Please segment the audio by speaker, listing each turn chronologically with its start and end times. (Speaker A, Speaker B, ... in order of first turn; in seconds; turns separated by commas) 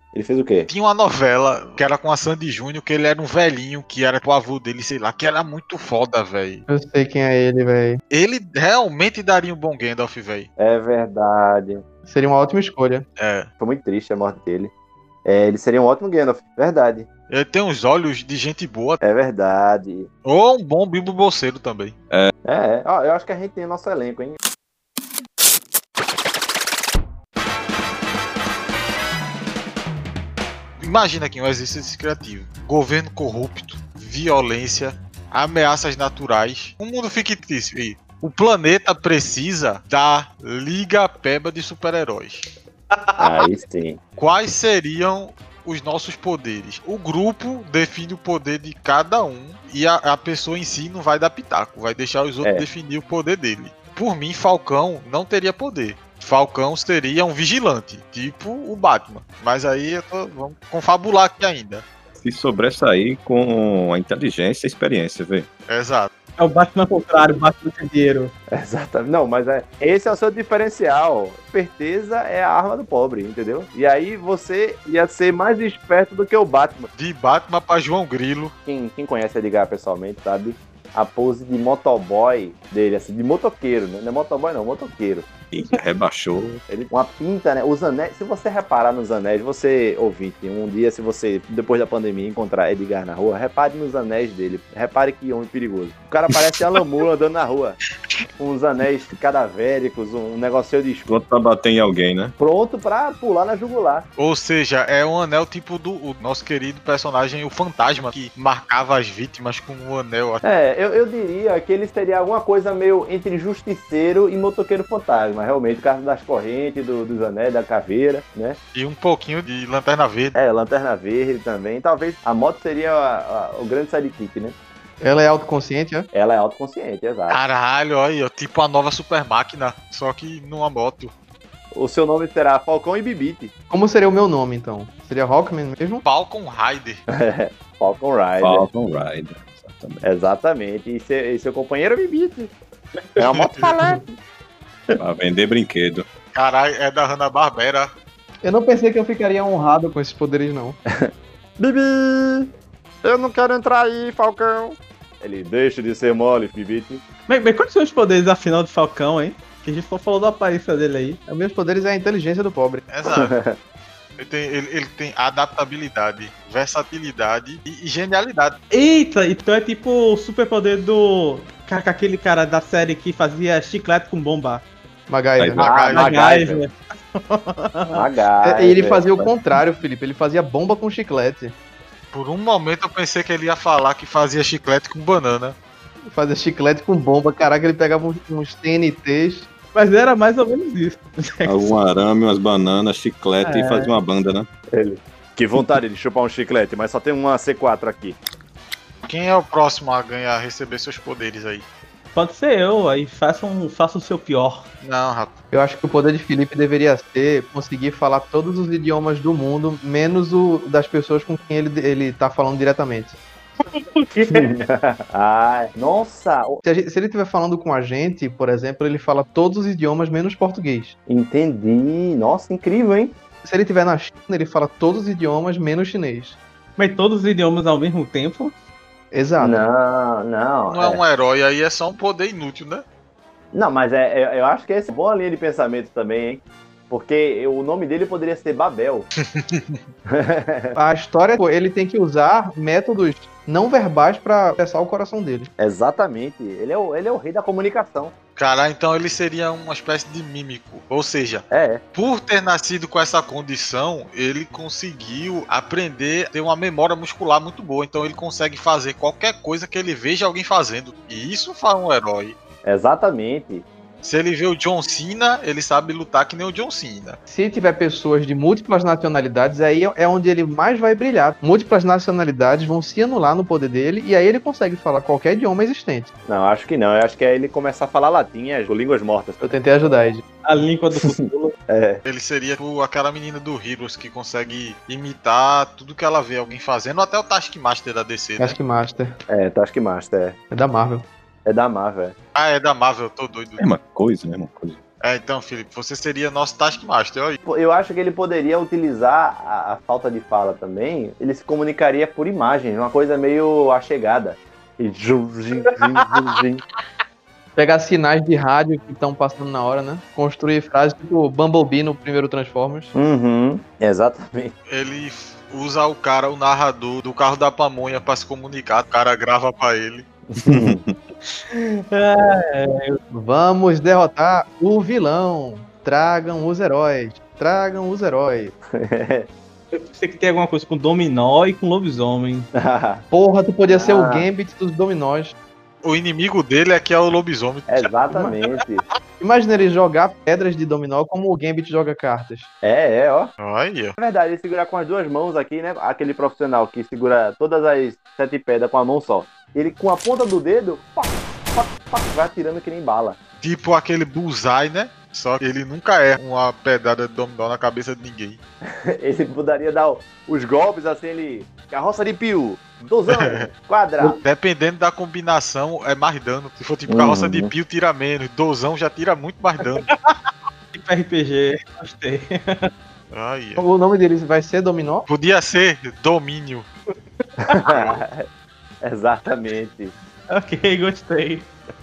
Speaker A: 0.1-0.7, Speaker B: 0.7-6.7, Speaker C: 6.7-8.0, Speaker B: 8.1-10.5, Speaker A: 10.6-11.8, Speaker C: 12.1-13.1, Speaker B: 13.2-13.5, Speaker A: 13.6-14.7, Speaker A: 15.2-17.1, Speaker B: 17.3-19.0, Speaker A: 19.0-20.1, Speaker B: 20.2-21.9, Speaker A: 22.4-24.4, Speaker B: 30.8-42.5, Speaker D: 42.9-43.2, Speaker A: 43.2-44.0, Speaker B: 44.2-61.8, Speaker E: 62.2-65.5, Speaker B: 65.7-66.1, Speaker D: 66.4-68.3, Speaker A: 68.5-76.9, Speaker B: 77.0-78.5, Speaker A: 78.7-85.3, Speaker E: 85.5-86.6, Speaker A: 86.7-97.8, Speaker A: 98.4-101.2, Speaker E: 101.1-102.3, Speaker A: 102.4-104.1, Speaker B: 104.2-110.4, Speaker A: 110.4-118.6, Speaker B: 118.8-120.4, Speaker A: 120.3-124.5, Speaker C: 125.0-126.1, Speaker A: 126.1-127.4, Speaker B: 127.3-131.1, Speaker A: 131.7-133.5, Speaker C: 133.7-136.0, Speaker B: 136.1-137.0, Speaker A: 137.1-138.7, Speaker E: 138.4-140.1, Speaker A: 140.0-142.5, Speaker A: 143.2-144.1, Speaker B: 143.3-143.7, Speaker E: 145.0-146.1, Speaker B: 146.3-147.9, Speaker C: 148.4-150.8, Speaker A: 150.9-152.5, Speaker A: 153.0-157.0, Speaker D: 157.3-161.2, Speaker C: 161.3-162.8, Speaker B: 162.9-163.3, Speaker A: 163.1-163.6, Speaker B: 164.2-168.6, Speaker D: 168.7-174.6, Speaker C: 175.1-175.6, Speaker E: 175.4-175.7, Speaker B: 175.6-176.2, Speaker A: 175.6-176.6, Speaker D: 175.9-178.0, Speaker A: 177.9-179.1, Speaker C: 178.4-181.5, Speaker B: 182.1-185.6, Speaker C: 186.1-189.5, Speaker D: 189.7-191.8, Speaker E: 191.4-194.5, Speaker D: 193.4-194.0, Speaker A: 194.7-198.2, Speaker B: 199.1-201.7, Speaker D: 202.2-204.7, Speaker B: 204.8-205.3, Speaker C: 205.5-213.2, Speaker D: 213.7-214.6, Speaker A: 214.3-216.6, Speaker C: 216.6-221.0, Speaker A: 221.1-223.2, Speaker C: 223.4-226.4, Speaker D: 226.8-228.5, Speaker C: 229.1-229.6, Speaker A: 229.4-231.0, Speaker B: 230.7-232.8, Speaker A: 233.5-239.1, Speaker B: 239.2-239.8, Speaker A: 240.1-240.8, Speaker C: 240.8-245.5, Speaker A: 245.6-248.1, Speaker B: 248.4-262.4, Speaker A: 251.5-251.8, Speaker A: 262.6-263.6, Speaker B: 264.0-267.2, Speaker C: 267.3-276.1, Speaker A: 276.3-279.6, Speaker C: 279.4-280.2, Speaker D: 280.4-281.6, Speaker A: 281.0-282.0, Speaker B: 282.1-288.6, Speaker C: 288.4-289.1, Speaker A: 289.3-290.4, Speaker C: 290.5-291.1, Speaker A: 291.5-292.1, Speaker B: 292.4-293.6, Speaker E: 293.6-294.8, Speaker B: 295.0-297.4, Speaker A: 297.4-306.6, Speaker C: 307.6-312.9, Speaker A: 312.9-314.5, Speaker B: 314.7-320.1, Speaker A: 320.3-320.8, Speaker E: 320.4-320.9, Speaker D: 321.3-323.0, Speaker C: 323.1-328.5, Speaker A: 328.7-329.3, Speaker D: 329.7-332.5, Speaker A: 332.6-333.1, Speaker C: 333.1-335.4, Speaker A: 333.7-334.3, Speaker B: 335.8-337.9, Speaker A: 337.7-338.9, Speaker C: 339.2-342.5, Speaker A: 342.6-343.3, Speaker B: 343.4-344.0, Speaker A: 344.0-353.2, Speaker B: 353.4-358.4, Speaker A: 358.9-364.2, Speaker B: 363.1-363.4, Speaker B: 364.2-369.9, Speaker A: 366.9-367.5, Speaker D: 369.8-372.7, Speaker B: 373.1-373.6, Speaker C: 373.6-375.1, Speaker B: 375.1-376.7, Speaker D: 377.5-377.9, Speaker A: 377.5-378.2, Speaker A: 378.8-379.9, Speaker D: 380.3-381.5